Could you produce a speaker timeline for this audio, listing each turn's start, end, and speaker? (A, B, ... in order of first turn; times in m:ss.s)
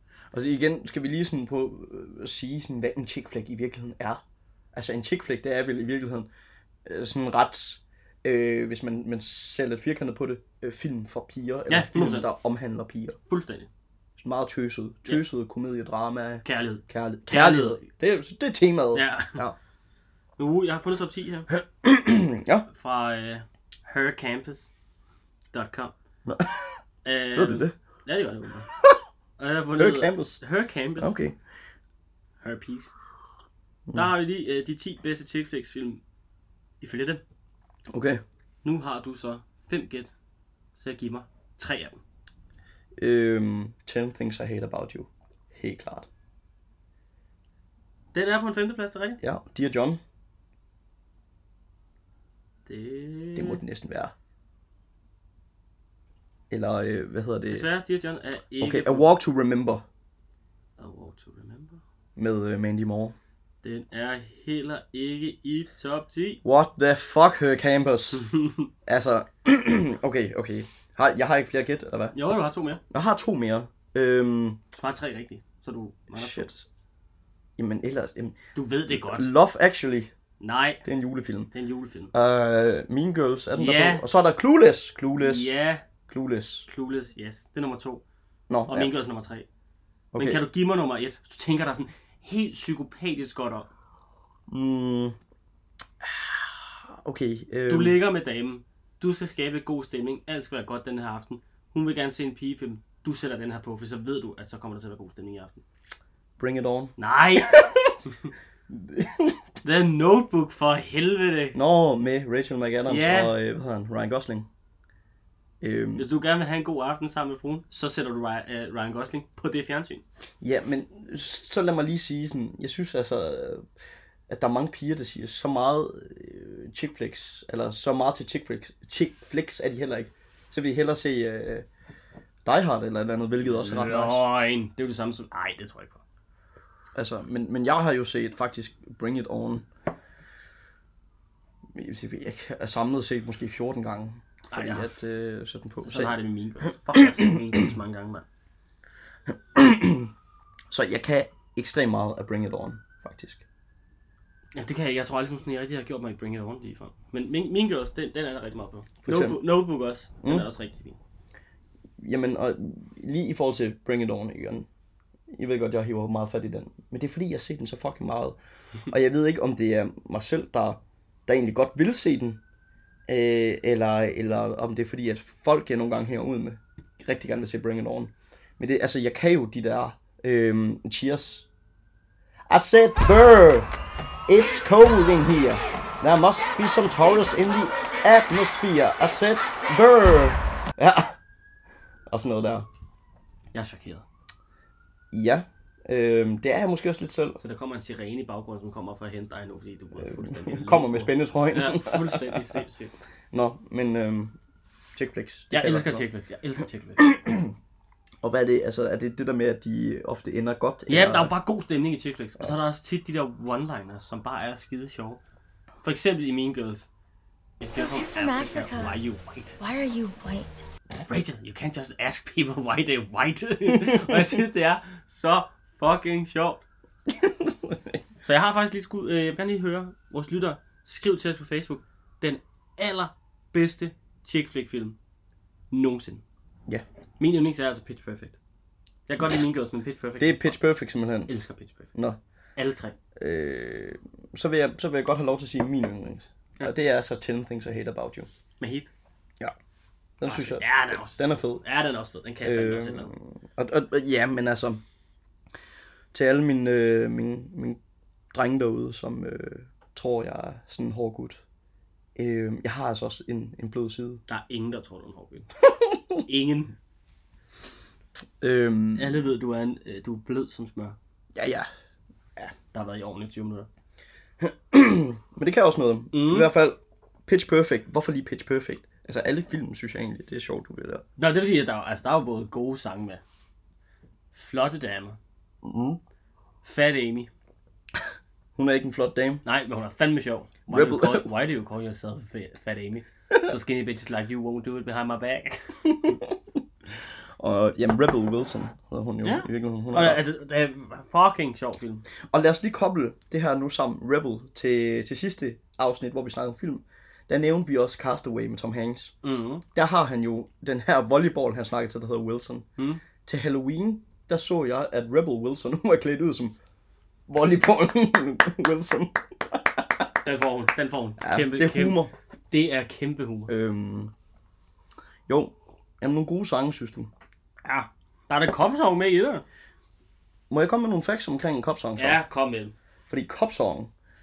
0:00.3-0:06.3 A
0:06.9-0:13.2 A
0:11.7-0:12.3 B
0:13.3-0:13.7 B
0:14.2-0:19.6 A
0:16.4-0:17.9 B
0:18.9-0:19.4 B
0:20.4-0:21.5 B
0:21.8-0:22.7 A
0:22.7-0:24.7 B
0:25.5-0:26.0 B
0:26.3-0:26.8 A
0:27.0-0:28.7 B
0:27.3-0:27.7 A
0:29.4-0:31.2 B
0:29.8-0:30.4 A
0:31.0-0:31.4 A
0:32.4-0:33.0 B
0:33.9-0:36.0 B
0:36.8-0:37.2 B
0:37.9-0:38.2 A
0:38.6-0:40.1 B
0:40.8-0:42.0 B
0:43.0-0:46.1 A
0:48.1-0:49.2 B
0:49.2-0:50.0 A
0:52.7-0:53.6 B
0:53.4-0:54.1 A
0:56.5-0:57.7 A
0:57.5-0:59.1 B
0:58.6-0:59.8 A
1:00.8-1:01.8 B
1:02.2-1:03.2 A
1:03.6-1:06.4 B
1:06.4-1:08.2 A
1:08.1-1:08.7 B
1:08.8-1:12.2 A
1:12.1-1:12.8 B
1:12.9-1:14.6 A
1:14.7-1:16.5 B
1:16.1-1:16.7 A
1:17.6-1:20.1 A
1:18.6-1:19.3 B
1:20.4-1:20.8 B
1:20.8-1:21.5 A
1:21.5-1:22.1 B
1:22.1-1:25.5 A
1:23.6-1:24.1 B
1:25.2-1:25.9 B
1:26.1-1:26.7 A
1:26.7-1:28.0 B
1:28.5-1:28.9 A
1:28.7-1:29.5 B
1:30.1-1:30.4 A
1:30.2-1:33.7 B
1:34.5-1:35.2 A
1:36.0-1:38.0 A
1:37.7-1:45.6 B
1:46.4-1:48.0 A
1:47.0-1:47.6 B
1:48.7-1:49.4 A
1:49.6-1:51.6 B
1:51.5-1:54.5 A
1:52.9-1:53.3 B
1:55.6-1:56.1 A
1:56.0-2:00.0 B
2:00.4-2:03.7 A
2:04.3-2:11.7 A
2:12.4-2:14.3 A
2:13.4-2:16.0 B
2:17.0-2:19.7 A
2:21.7-2:26.2 A
2:24.5-2:24.9 B
2:25.9-2:28.3 B
2:29.5-2:30.1 A
2:30.7-2:33.4 A
2:34.5-2:41.0 B
2:39.0-2:39.4 A
2:42.0-2:44.7 A
2:45.3-2:48.4 A
2:48.9-2:52.4 A
2:53.1-3:01.5 A
3:02.5-3:03.7 A
3:04.3-3:11.2 A
3:12.1-3:12.7 A
3:13.5-3:14.0 B
3:15.1-3:17.4 A
3:17.4-3:22.9 B
3:20.0-3:22.6 A
3:23.3-3:24.4 A
3:25.0-3:26.1 A
3:25.5-3:27.1 B
3:27.0-3:27.5 A
3:28.2-3:31.4 A
3:30.9-3:35.2 B
3:35.8-3:36.9 B
3:37.6-3:39.0 C
3:37.6-3:39.6 B
3:39.6-3:40.6 C
3:41.1-3:46.6 B
3:43.7-3:44.3 A
3:47.1-3:48.0 A
3:48.2-3:55.0 B
3:55.7-3:56.2 B
3:57.2-3:58.4 B
3:59.1-4:00.6 B
4:00.2-4:01.3 A
4:01.3-4:01.9 B
4:02.6-4:03.0 B
4:03.2-4:08.3 A
4:08.6-4:08.9 B
4:10.2-4:11.6 A
4:10.2-4:13.1 B
4:12.4-4:14.8 A
4:16.1-4:17.8 A
4:18.3-4:21.4 A
4:22.2-4:24.2 A
4:24.3-4:25.5 B
4:25.6-4:26.2 A
4:26.2-4:26.8 B
4:28.4-4:29.2 A
4:29.0-4:31.0 B
4:31.4-4:31.7 A
4:32.7-4:33.7 B
4:34.4-4:41.0 A
4:36.1-4:36.5 B
4:41.2-4:43.2 B
4:44.3-4:45.2 B
4:45.6-4:46.0 A
4:46.6-4:47.3 B
4:48.6-4:49.4 A
4:49.4-4:55.8 B
4:50.7-4:51.3 A
4:55.8-4:56.6 A
4:57.4-5:00.3 A
4:59.2-5:02.0 B
5:02.3-5:09.1 A
5:09.2-5:09.6 B
5:09.7-5:12.7 A
5:13.2-5:16.6 A
5:17.3-5:20.1 A
5:20.2-5:23.5 B
5:21.2-5:22.1 A
5:23.5-5:24.1 A
5:25.3-5:27.1 A
5:27.6-5:29.4 B
5:30.5-5:32.2 A
5:32.0-5:32.8 B
5:33.1-5:33.9 A